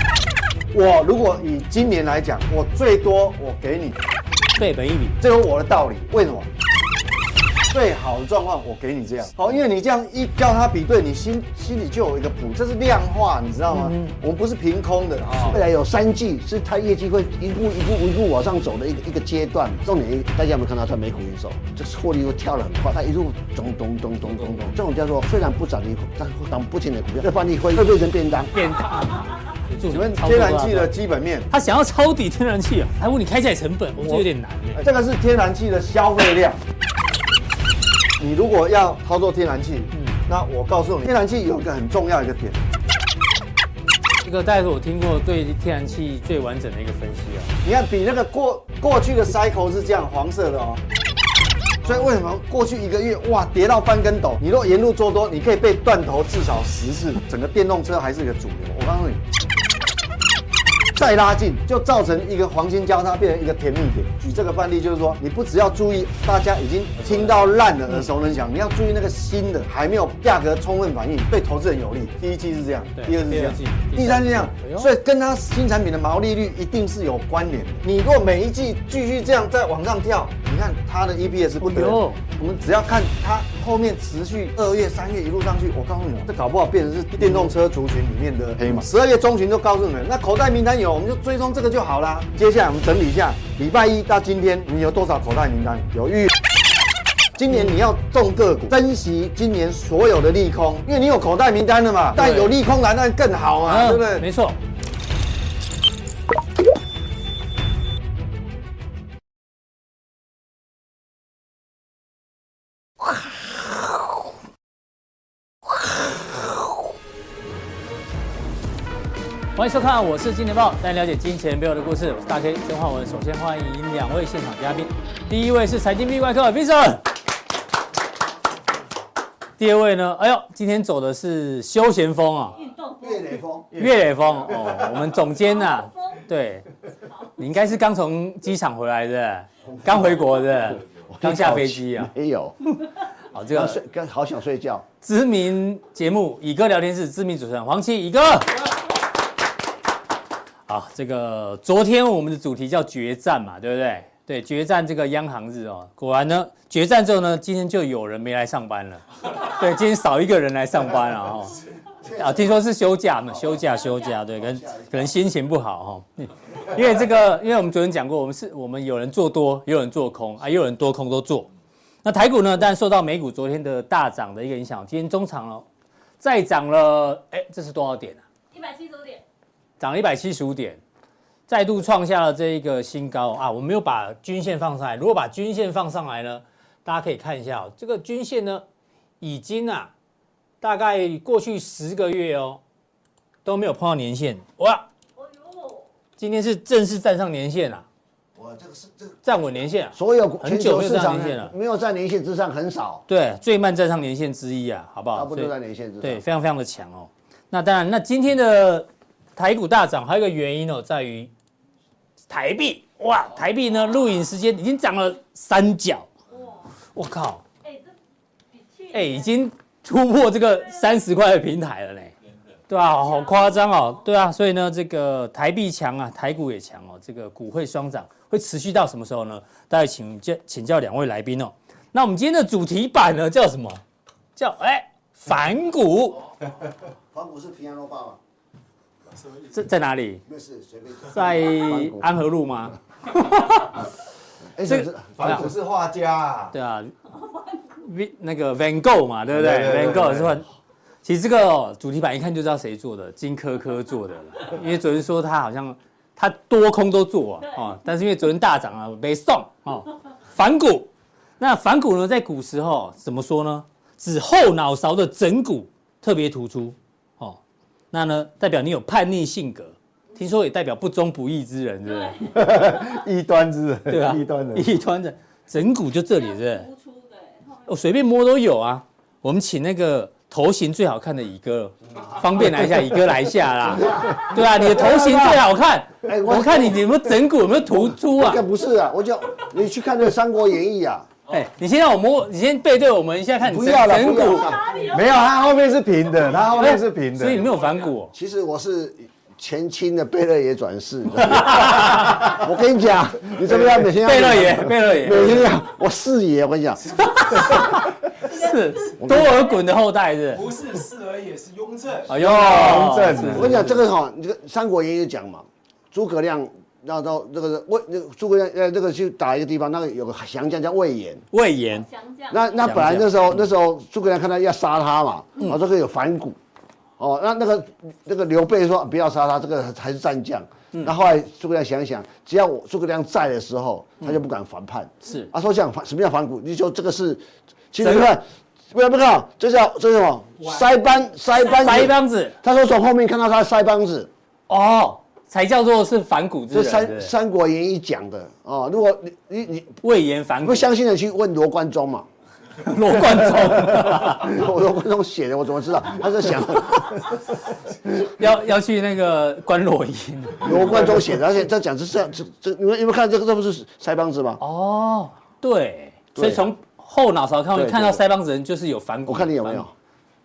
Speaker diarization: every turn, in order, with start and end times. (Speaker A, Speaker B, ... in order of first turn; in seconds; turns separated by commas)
Speaker A: 0.7-4.0, Speaker B: 4.6-5.2, Speaker A: 5.2-6.5, Speaker A: 7.7-15.6, Speaker B: 13.7-14.2, Speaker C: 15.5-28.6, Speaker B: 24.4-24.6, Speaker B: 28.5-30.9, Speaker A: 29.9-31.5, Speaker B: 31.5-34.9, Speaker A: 34.0-34.2, Speaker A: 34.8-36.6, Speaker A: 38.2-42.6, Speaker B: 39.9-40.2, Speaker B: 44.2-47.5, Speaker A: 47.6-50.8, Speaker A: 51.8-59.2, Speaker A: 61.0-96.3, Speaker B: 73.0-74.9, Speaker B: 81.6-82.2, Speaker B: 87.2-87.5, Speaker A: 97.4-104.3, Speaker B: 97.5-97.8, Speaker B: 102.2-102.5, Speaker B: 103.7-104.6, Speaker B: 119.5-127.1, Speaker B: 129.6-132.6, Speaker D: 132.6-133.4, Speaker C: 133.0-133.8, Speaker A: 133.8-134.1, Speaker B: 133.8-136.7, Speaker D: 135.4-136.2, Speaker B: 137.4-142.1, Speaker C: 139.7-140.2, Speaker C: 141.0-142.6, Speaker B: 143.3-143.8, Speaker C: 143.5-144.8, Speaker B: 145.0-148.7, Speaker B: 150.7-171.5, Speaker C: 161.9-162.6, Speaker C: 163.3-163.8, Speaker C: 164.4-165.2, Speaker B: 172.0-175.7, Speaker B: 176.2-178.2, Speaker D: 178.5-179.2, Speaker B: 179.8-180.8, Speaker B: 181.5-188.6, Speaker B: 189.2-189.9, Speaker B: 190.6-192.6, Speaker B: 193.4-194.9, Speaker D: 195.2-195.9, Speaker B: 196.2-197.8, Speaker C: 198.4-199.2, Speaker B: 199.2-201.5, Speaker C: 199.9-203.0, Speaker B: 203.1-211.3, Speaker C: 205.1-206.2, Speaker B: 212.3-216.1, Speaker D: 216.3-216.8, Speaker B: 216.9-217.4, Speaker D: 217.6-217.9, Speaker D: 218.5-219.3, Speaker B: 218.9-222.1, Speaker D: 220.7-221.0, Speaker B: 222.7-233.8, Speaker D: 223.0-224.0, Speaker B: 234.4-236.3, Speaker C: 237.1-238.2, Speaker B: 239.5-240.2, Speaker C: 240.3-242.1, Speaker B: 241.1-243.9, Speaker C: 244.6-245.5, Speaker B: 244.7-245.5, Speaker A: 245.2-246.5, Speaker B: 246.5-246.9, Speaker D: 247.1-247.6, Speaker B: 247.8-250.4, Speaker A: 249.3-250.4, Speaker B: 251.1-267.4, Speaker B: 267.9-272.4, Speaker D: 271.9-272.9, Speaker A: 272.3-274.7, Speaker B: 273.9-276.7, Speaker D: 276.1-277.7, Speaker B: 277.7-288.5, Speaker C: 283.7-285.4, Speaker A: 284.9-285.4, Speaker C: 286.1-286.9, Speaker C: 287.7-291.1, Speaker B: 291.3-294.6, Speaker C: 293.4-294.7, Speaker D: 294.4-295.4, Speaker A: 294.8-297.5, Speaker B: 296.6-298.1, Speaker E: 297.6-297.9, Speaker C: 298.1-307.6, Speaker B: 301.2-302.4, Speaker B: 304.0-305.6, Speaker B: 307.0-310.5, Speaker D: 308.4-309.4, Speaker C: 309.0-309.5, Speaker E: 310.3-312.2, Speaker B: 312.1-313.8, Speaker A: 312.1-313.6, Speaker C: 312.4-321.2, Speaker B: 321.3-321.9, Speaker D: 321.7-322.8, Speaker C: 322.3-326.4, Speaker B: 322.6-323.5, Speaker C: 327.0-344.1, Speaker B: 335.1-335.3, Speaker B: 337.8-338.1, Speaker B: 341.4-342.4, Speaker B: 344.5-347.1, Speaker C: 346.5-349.8, Speaker B: 349.8-350.7, Speaker C: 350.4-352.1, Speaker B: 352.6-354.4, Speaker C: 353.0-357.2, Speaker B: 358.0-360.9, Speaker C: 360.4-364.4, Speaker B: 364.4-369.6, Speaker C: 366.1-366.5, Speaker C: 367.5-368.0, Speaker C: 369.1-369.7